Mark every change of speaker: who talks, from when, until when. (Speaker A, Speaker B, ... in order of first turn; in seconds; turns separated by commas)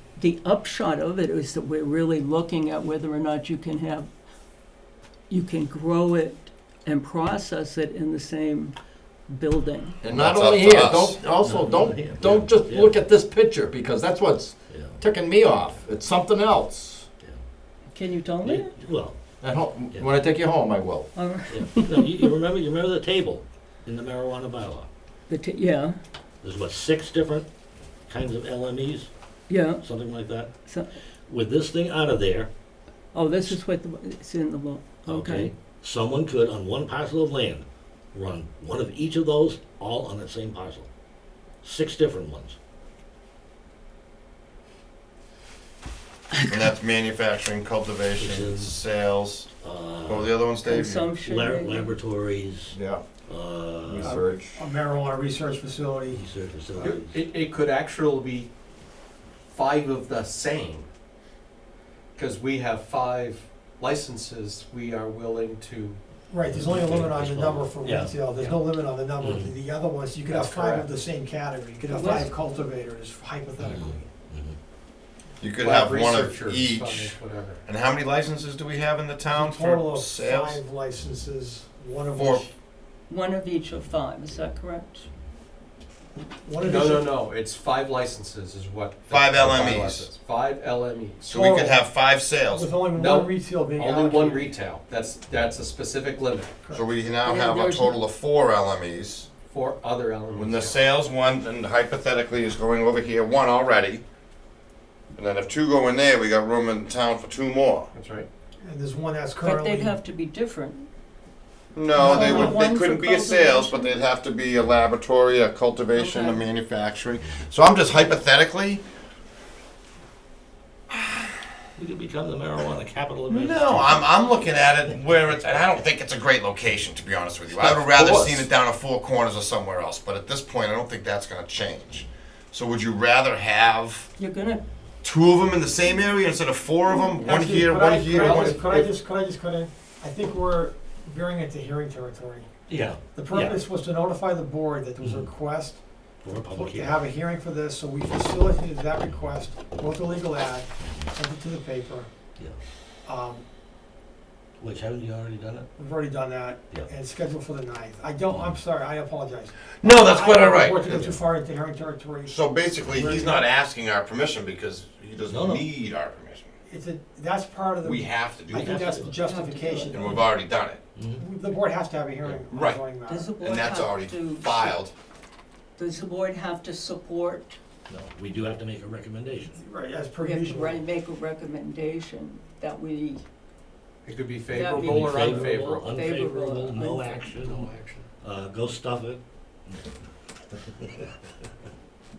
Speaker A: 0.2-4.1, Speaker A: 5.3-8.8, Speaker A: 9.3-10.0, Speaker B: 10.0-17.1, Speaker C: 10.1-11.2, Speaker D: 11.3-13.0, Speaker D: 14.7-15.0, Speaker A: 17.9-18.8, Speaker D: 18.4-19.2, Speaker B: 19.4-21.1, Speaker D: 19.9-20.2, Speaker A: 21.1-22.3, Speaker D: 21.5-24.9, Speaker A: 25.3-26.0, Speaker D: 26.4-27.5, Speaker D: 28.1-29.1, Speaker A: 29.5-29.8, Speaker D: 29.8-30.5, Speaker A: 30.7-30.9, Speaker D: 31.3-32.5, Speaker A: 33.1-35.5, Speaker D: 35.1-40.9, Speaker D: 41.6-42.6, Speaker C: 46.5-49.5, Speaker D: 48.2-48.8, Speaker D: 49.6-50.3, Speaker C: 50.1-51.1, Speaker A: 50.6-52.0, Speaker D: 51.2-54.2, Speaker C: 52.7-53.0, Speaker C: 53.9-54.6, Speaker E: 54.0-56.2, Speaker D: 56.1-57.2, Speaker F: 56.8-58.5, Speaker F: 59.5-60.9, Speaker F: 62.2-66.0, Speaker E: 66.3-74.1, Speaker D: 66.5-68.3, Speaker D: 69.2-69.5, Speaker F: 70.3-70.9, Speaker A: 71.9-72.3, Speaker D: 73.6-74.6, Speaker C: 75.4-80.6, Speaker F: 75.6-77.6, Speaker E: 79.3-82.5, Speaker C: 82.1-82.4, Speaker A: 83.1-85.1, Speaker E: 86.2-87.1, Speaker F: 86.6-91.4, Speaker C: 89.1-90.1, Speaker C: 91.3-92.7, Speaker E: 91.4-91.8, Speaker E: 92.5-94.5, Speaker F: 92.9-96.6, Speaker C: 96.7-99.3, Speaker A: 97.2-98.0, Speaker F: 99.5-100.8, Speaker C: 100.3-104.0, Speaker C: 105.2-107.9, Speaker F: 107.9-108.3, Speaker E: 108.6-110.0, Speaker A: 109.4-110.9, Speaker C: 111.8-118.8, Speaker A: 111.9-114.0, Speaker E: 112.0-112.7, Speaker A: 115.9-116.5, Speaker D: 121.8-124.2, Speaker C: 123.3-134.1, Speaker B: 125.3-125.6, Speaker B: 127.5-128.5, Speaker A: 134.2-134.6, Speaker C: 135.0-138.9, Speaker E: 137.1-142.5, Speaker D: 142.7-143.6, Speaker E: 143.1-152.1, Speaker D: 145.0-145.3, Speaker D: 146.2-147.0, Speaker D: 150.8-151.1, Speaker E: 153.1-153.4, Speaker D: 154.6-155.7, Speaker E: 155.8-162.4, Speaker D: 158.3-158.6, Speaker C: 159.8-161.1, Speaker C: 162.3-166.5, Speaker E: 162.9-163.5, Speaker D: 165.3-165.7, Speaker E: 166.7-170.2, Speaker C: 167.8-168.8, Speaker D: 168.6-169.1, Speaker A: 169.2-170.2, Speaker C: 169.9-170.8, Speaker D: 171.0-171.2, Speaker E: 171.2-173.4, Speaker C: 172.2-172.8, Speaker A: 173.1-174.8, Speaker C: 173.4-174.9, Speaker A: 175.8-177.6, Speaker D: 177.9-179.6, Speaker E: 179.6-180.8, Speaker A: 180.2-183.2, Speaker F: 184.1-186.0, Speaker A: 184.5-187.2, Speaker D: 184.5-189.9, Speaker F: 187.3-188.1, Speaker D: 190.8-191.1